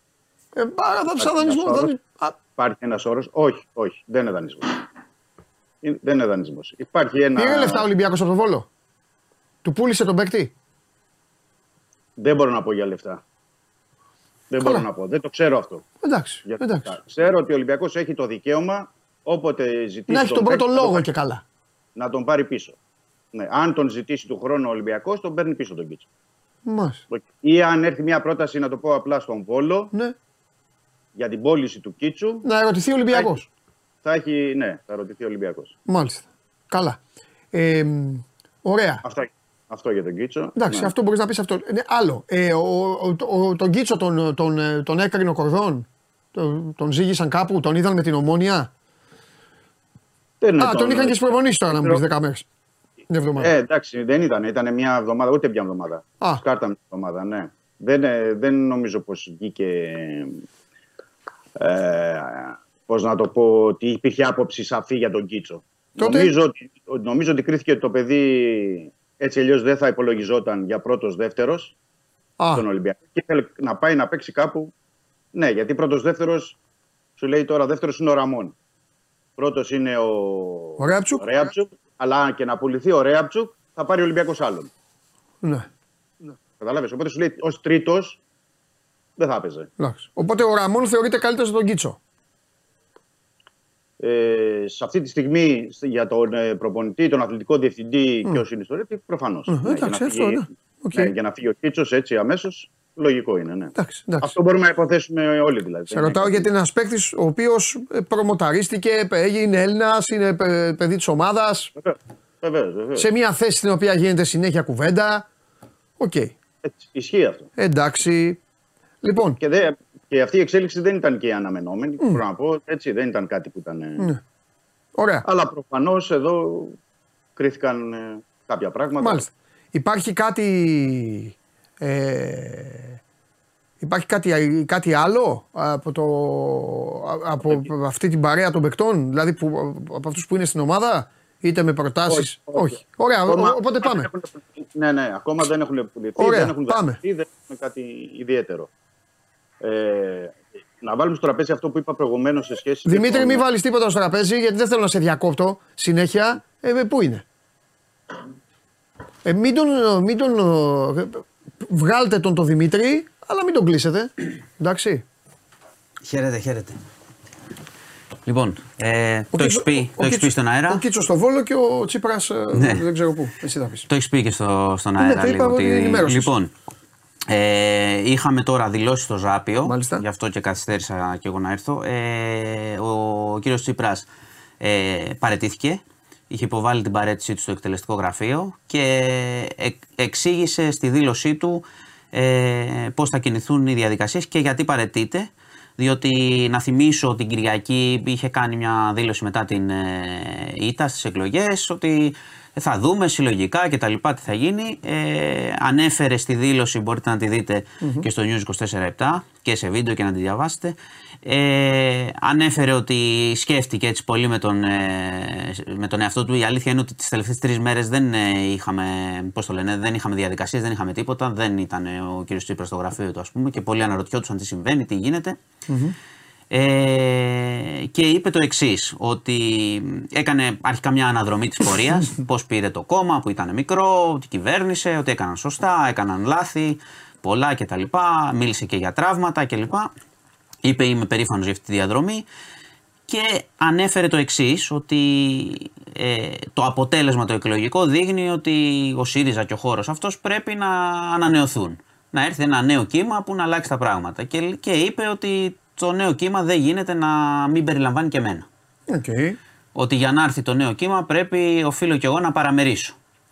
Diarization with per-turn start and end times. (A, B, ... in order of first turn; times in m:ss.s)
0:00.5-0:02.4 A
0:01.1-0:01.9 B
0:02.6-0:04.8 B
0:05.8-0:07.9 B
0:07.4-0:08.7 A
0:09.6-0:10.5 A
0:12.2-0:13.2 B
0:14.5-0:15.8 B
0:14.6-0:14.9 A
0:16.0-0:17.0 A
0:16.4-0:21.1 B
0:20.1-0:21.4 A
0:21.9-0:22.8 B
0:23.3-0:26.1 B
0:26.6-0:27.0 A
0:27.1-0:29.9 B
0:31.1-0:32.4 B
0:32.4-0:33.5 A
0:33.1-0:33.4 B
0:34.0-0:35.7 B
0:35.8-0:37.0 A
0:37.5-0:39.0 A
0:39.0-0:40.9 B
0:40.6-0:48.7 A
0:50.4-0:52.0 B
0:50.6-0:52.4 A
0:53.1-0:53.5 A
0:53.4-1:00.4 B
1:01.6-1:11.7 B
1:06.0-1:06.3 A
1:12.4-1:12.6 A
1:12.5-1:14.7 B
1:15.3-1:16.6 B
1:17.2-1:18.5 B
1:19.4-1:24.7 B
1:20.8-1:21.3 A
1:25.4-1:25.7 A
1:26.6-1:28.2 B
1:29.2-1:29.7 B
1:29.8-1:32.0 A
1:34.0-1:46.5 B
1:39.5-1:41.1 A
1:43.7-1:44.3 A
1:45.9-1:51.7 A
1:51.8-1:53.1 B
1:53.0-1:55.3 A
1:56.0-1:56.4 A
1:56.6-1:57.5 B
1:57.6-1:58.4 A
1:59.0-1:59.4 A
1:59.4-2:04.1 B
2:05.0-2:05.2 A
2:05.2-2:06.8 B
2:07.4-2:09.3 B
2:09.0-2:13.0 A
2:13.8-2:24.1 A
2:22.1-2:28.7 B
2:26.2-2:27.0 A
2:29.6-2:33.4 B
2:32.8-2:37.2 A
2:39.2-2:45.0 A
2:46.0-2:46.8 C
2:48.2-2:50.8 C
2:49.3-2:53.9 A
2:52.5-2:52.9 C
2:53.9-2:56.5 C
2:55.0-2:56.3 A
2:57.3-3:04.1 C
2:59.6-3:00.0 A
3:04.6-3:45.4 C
3:27.8-3:28.1 A
3:45.7-3:46.0 A
3:46.5-3:59.9 C
4:00.6-4:02.2 C
4:03.1-4:18.5 C
4:18.9-4:19.4 A
4:19.7-4:23.0 C